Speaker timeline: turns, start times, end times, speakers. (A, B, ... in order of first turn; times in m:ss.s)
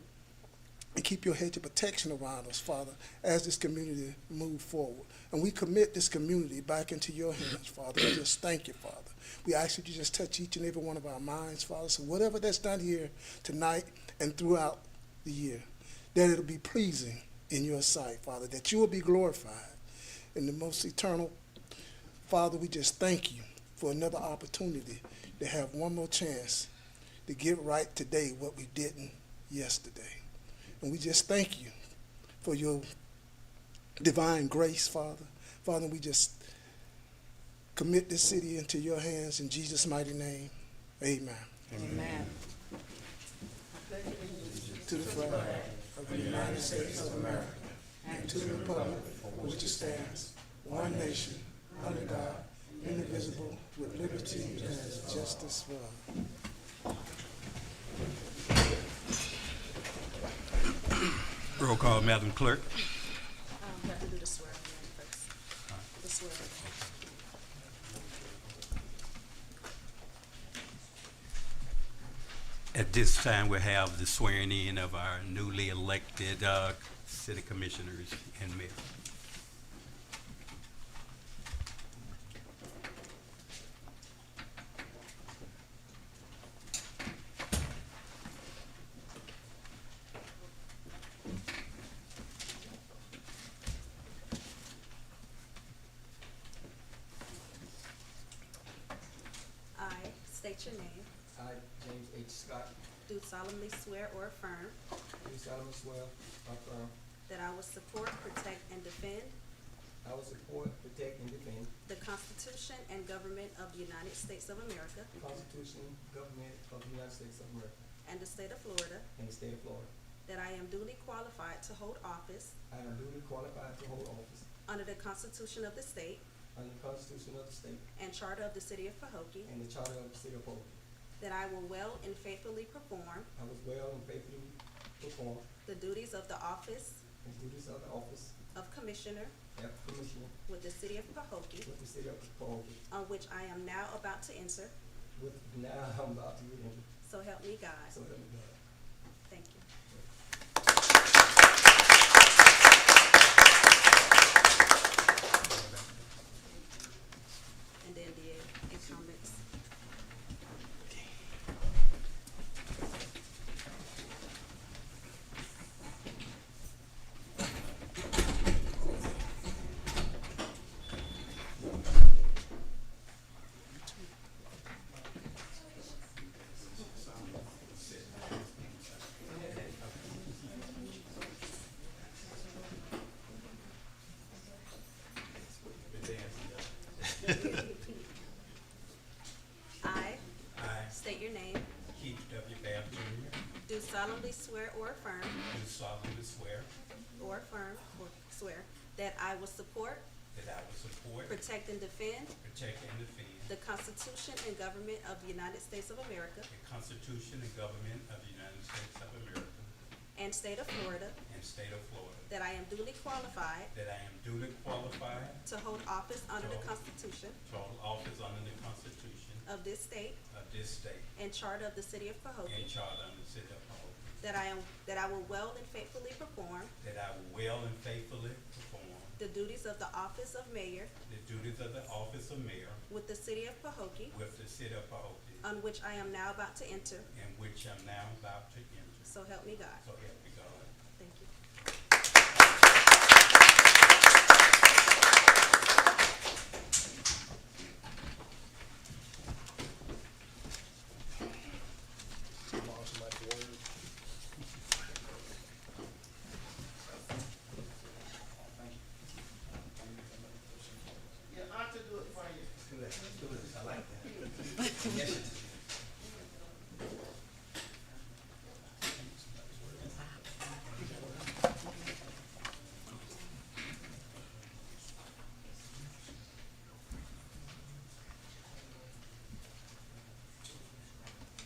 0:01.0-0:19.8 A
0:20.3-0:21.4 A
0:22.2-0:26.7 A
0:27.2-0:30.2 A
0:30.8-0:31.7 A
0:32.4-0:32.8 A
0:34.0-0:36.5 A
0:37.7-0:41.9 A
0:41.7-0:42.3 B
0:44.8-0:56.0 A
0:46.1-0:46.6 B
0:48.6-0:49.0 B
1:01.6-1:02.8 B
1:03.6-1:05.3 C
1:06.0-1:06.6 C
1:06.6-1:06.9 B
1:12.7-1:18.8 B
1:39.7-1:41.1 C
1:41.3-1:42.7 D
1:43.1-1:44.8 C
1:45.2-1:46.9 D
1:47.3-1:49.4 C
1:50.0-1:51.7 D
1:51.8-1:55.1 C
1:55.2-1:57.8 D
1:58.0-1:59.1 C
1:59.1-1:59.9 D
2:00.2-2:02.6 C
2:02.7-2:04.5 D
2:04.7-2:06.2 C
2:06.5-2:07.8 D
2:07.9-2:09.5 C
2:09.4-2:10.8 D
2:11.2-2:13.3 C
2:13.3-2:15.5 D
2:15.6-2:17.0 C
2:17.2-2:18.3 D
2:18.5-2:19.3 C
2:19.5-2:20.3 D
2:20.4-2:21.7 C
2:21.6-2:22.8 D
2:22.9-2:24.7 C
2:25.2-2:26.9 D
2:27.0-2:28.0 C
2:27.9-2:28.6 D
2:29.3-2:29.6 C
2:35.5-2:36.0 B
2:37.8-2:39.4 C
2:56.1-3:00.3 B
3:05.9-3:07.7 B
3:09.8-3:10.2 C
3:10.5-3:11.0 B
3:10.9-3:11.7 C
3:11.9-3:13.4 B
3:13.6-3:15.4 C
3:15.5-3:16.7 B
3:17.2-3:20.0 C
3:20.3-3:21.4 B
3:21.3-3:22.3 C
3:22.4-3:23.5 B
3:23.5-3:26.5 C
3:26.5-3:29.7 B
3:30.1-3:31.2 C
3:31.2-3:32.3 B
3:32.3-3:33.7 C
3:33.7-3:35.4 B
3:35.4-3:37.4 C
3:36.4-3:36.7 B
3:37.4-3:39.4 B
3:39.4-3:40.2 C
3:40.3-3:41.1 B
3:41.1-3:42.7 C
3:42.4-3:44.2 B
3:44.2-3:46.7 C
3:46.8-3:49.2 B
3:49.2-3:50.9 C
3:51.0-3:52.8 B
3:52.9-3:54.2 C
3:54.1-3:55.4 B
3:55.4-3:57.1 C
3:57.1-3:59.1 B
3:59.0-3:59.8 C
3:59.8-4:00.7 B
4:01.0-4:01.3 C
4:13.0-4:13.6 D
4:22.6-4:24.1 D
4:24.8-4:25.5 D